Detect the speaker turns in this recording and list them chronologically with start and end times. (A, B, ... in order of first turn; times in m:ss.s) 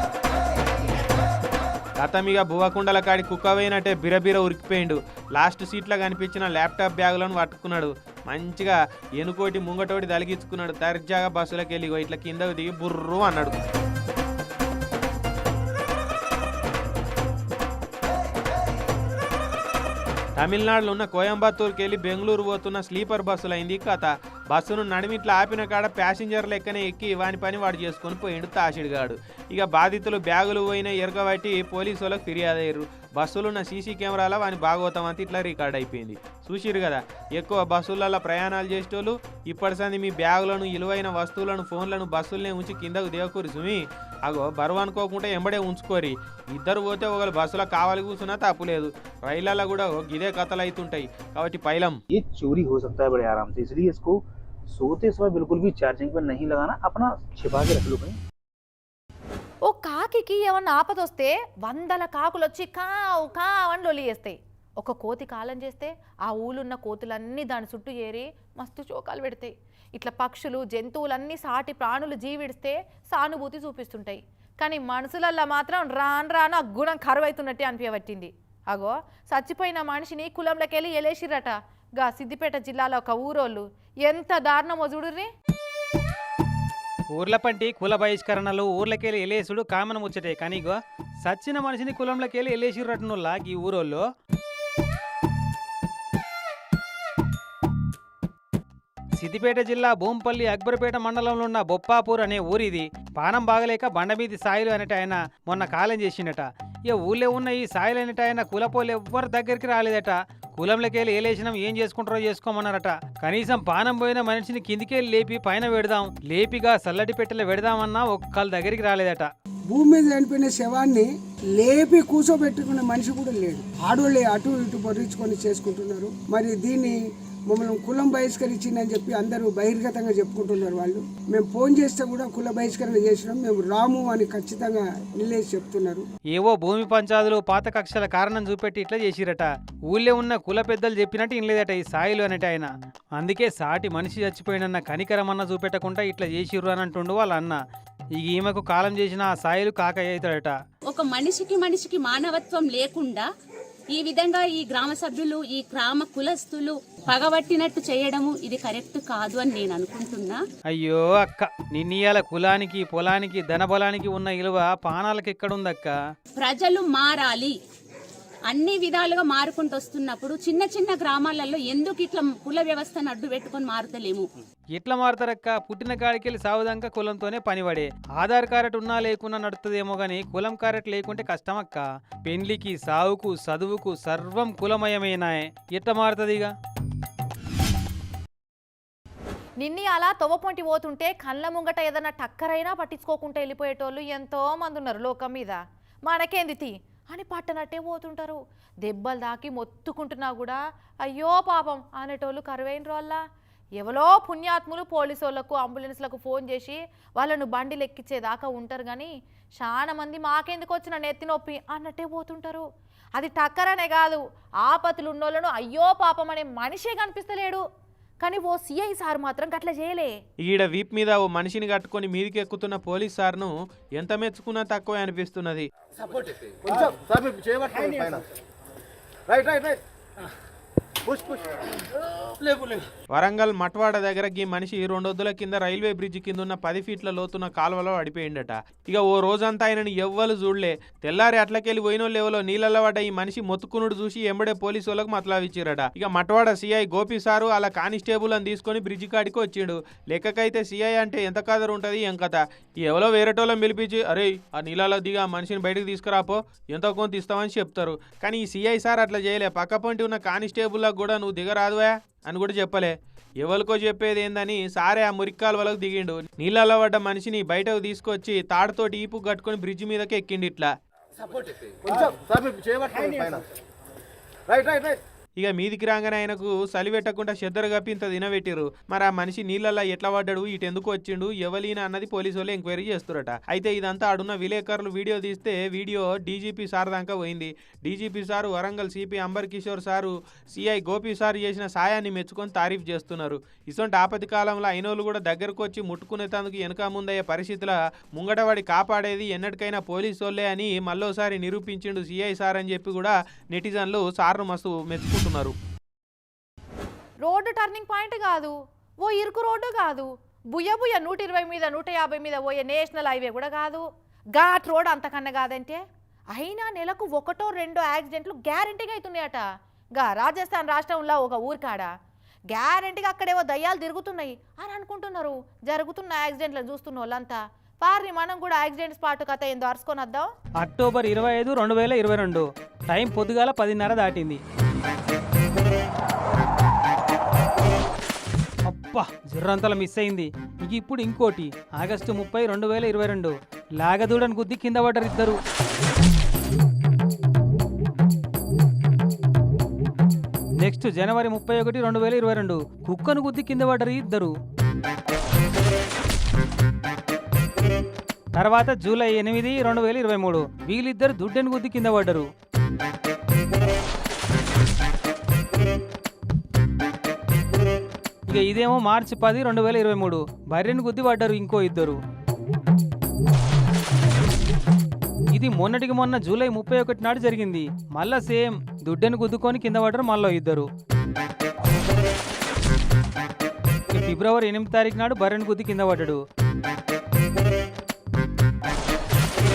0:02.0-0:13.5 A
0:20.4-0:52.0 A
0:52.1-0:54.2 B
0:54.7-0:58.2 B
0:59.7-1:25.3 C
1:27.2-1:34.0 D
1:39.2-1:59.3 D
1:59.7-2:07.0 E
2:07.5-2:16.0 E
2:16.4-2:27.6 D
2:28.2-2:30.6 D
2:30.9-2:33.3 F
2:33.9-2:40.4 F
2:40.7-2:46.0 D
2:46.4-2:47.6 F
2:48.5-2:54.3 F
2:54.8-3:06.5 D
3:09.6-3:23.2 C
3:23.8-3:37.6 C
3:38.2-3:40.2 C
3:40.4-3:45.7 A
3:46.7-3:48.1 G
3:49.3-3:49.7 G
3:53.1-4:30.7 A
4:31.9-4:33.4 G
4:34.5-4:35.0 G
4:35.4-5:05.6 A
5:07.2-5:15.8 C
5:16.3-5:19.4 C
5:20.0-5:21.9 C
5:22.5-5:30.3 C
5:30.6-5:34.4 D
5:38.7-5:45.4 D
5:50.6-5:54.4 D
5:58.4-6:02.3 D
6:08.3-6:12.0 D
6:15.3-6:20.7 D
6:23.9-6:26.2 D